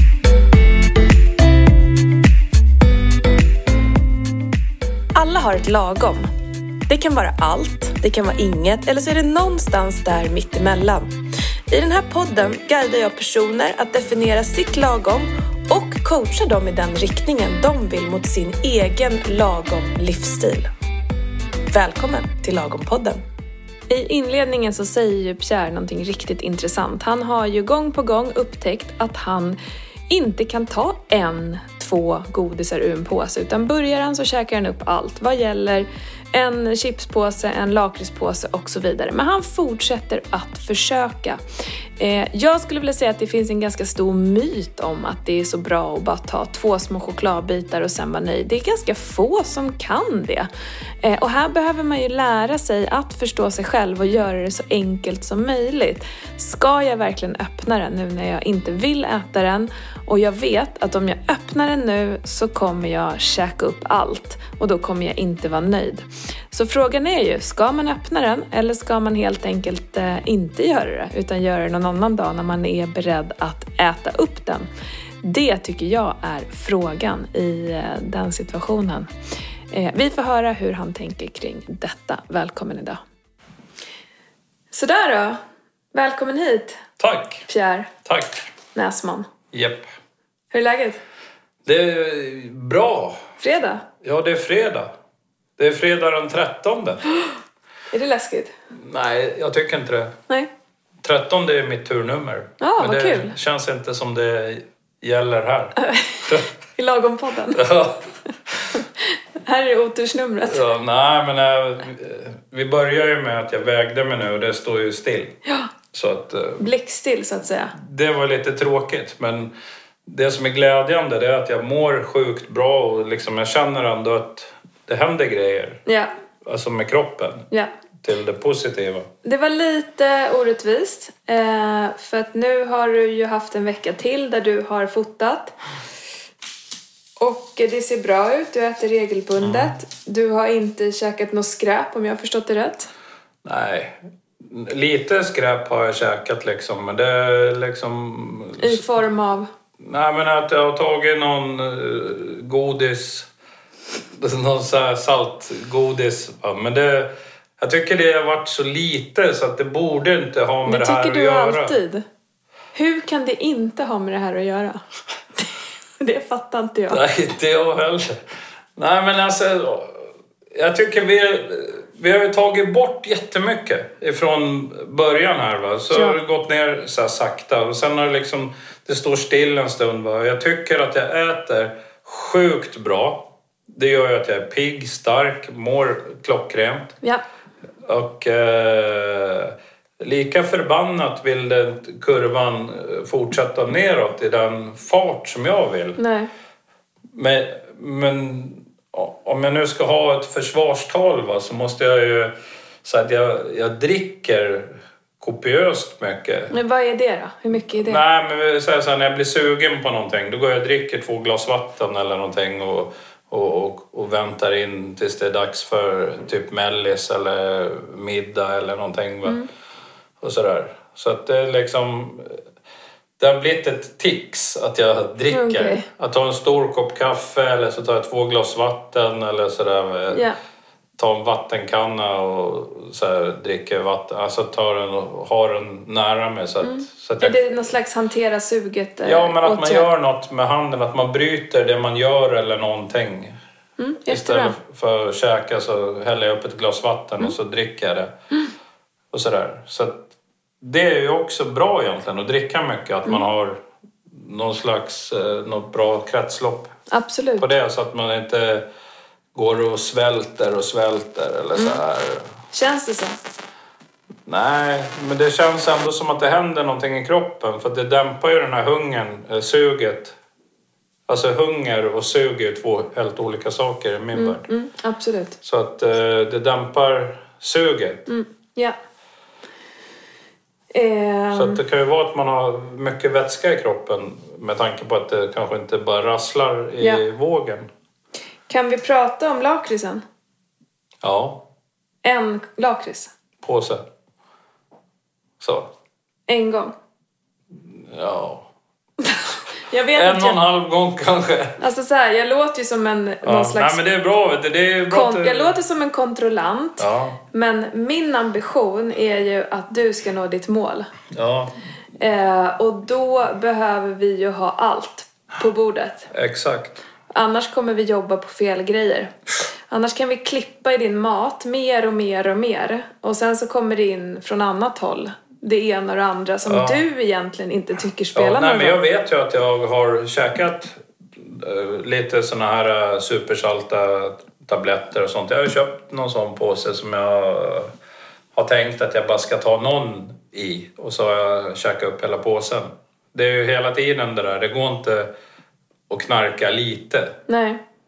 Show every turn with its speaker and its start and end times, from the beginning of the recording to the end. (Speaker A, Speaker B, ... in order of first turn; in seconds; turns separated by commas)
Speaker A: 5.1-6.3, Speaker A: 6.9-20.7, Speaker A: 21.7-23.2, Speaker A: 23.9-29.6, Speaker A: 30.1-41.4, Speaker A: 42.0-50.5, Speaker A: 51.0-74.7, Speaker A: 75.2-79.1, Speaker A: 79.7-83.0, Speaker A: 84.7-85.4, Speaker A: 85.9-86.8, Speaker B: 87.0-87.5, Speaker A: 87.5-87.9, Speaker B: 88.0-88.5, Speaker A: 88.7-89.3, Speaker B: 89.5-89.9, Speaker A: 90.5-91.0, Speaker B: 91.6-93.3, Speaker A: 93.4-93.8, Speaker B: 94.0-94.9, Speaker B: 95.6-97.0, Speaker A: 97.9-98.5, Speaker B: 98.8-100.2, Speaker B: 101.0-106.5, Speaker A: 102.6-103.3, Speaker A: 105.8-107.6, Speaker B: 107.5-108.8, Speaker A: 108.8-110.6, Speaker B: 110.5-115.3, Speaker B: 115.9-116.7, Speaker A: 116.6-117.7, Speaker B: 117.7-119.5, Speaker B: 120.0-125.8, Speaker A: 125.8-126.1, Speaker B: 126.4-127.5, Speaker B: 128.0-129.1, Speaker A: 129.2-135.5, Speaker A: 137.2-142.9, Speaker B: 139.4-139.7, Speaker B: 143.4-148.8, Speaker A: 148.6-149.5, Speaker B: 149.8-153.3, Speaker B: 154.2-161.8, Speaker A: 160.6-162.0, Speaker A: 162.7-164.8, Speaker A: 165.3-167.0, Speaker B: 166.9-168.1, Speaker B: 168.8-186.9, Speaker A: 175.9-176.2, Speaker B: 187.8-196.0, Speaker A: 196.0-196.3, Speaker B: 197.1-206.6, Speaker A: 206.5-208.0, Speaker B: 207.8-219.4, Speaker B: 220.2-222.4, Speaker B: 223.2-230.2, Speaker A: 225.3-225.8, Speaker B: 231.0-237.4, Speaker A: 236.6-239.9, Speaker B: 239.0-243.4, Speaker A: 243.8-244.6, Speaker B: 244.1-248.1, Speaker B: 249.1-256.7, Speaker A: 256.9-257.4, Speaker B: 257.4-258.6, Speaker B: 259.3-262.3, Speaker A: 261.5-261.8, Speaker A: 262.5-263.2, Speaker B: 264.3-270.2, Speaker B: 271.1-274.5, Speaker A: 274.1-275.4, Speaker B: 275.4-278.1, Speaker A: 278.1-278.8, Speaker A: 280.7-281.6, Speaker B: 281.3-287.7, Speaker A: 288.5-290.0, Speaker B: 291.0-291.5, Speaker A: 292.0-293.1, Speaker B: 293.4-293.9, Speaker B: 295.4-295.7, Speaker A: 296.3-296.7, Speaker B: 297.6-298.5, Speaker A: 299.0-300.4, Speaker B: 299.9-301.6, Speaker A: 301.6-303.9, Speaker B: 303.2-305.6, Speaker A: 304.9-310.9, Speaker B: 306.8-307.2, Speaker B: 311.1-311.5, Speaker A: 312.0-316.1, Speaker B: 316.1-316.8, Speaker A: 317.1-319.1, Speaker A: 319.7-328.8, Speaker B: 326.5-326.8, Speaker B: 328.1-337.7, Speaker B: 338.3-345.1, Speaker B: 345.9-347.2, Speaker A: 347.3-347.6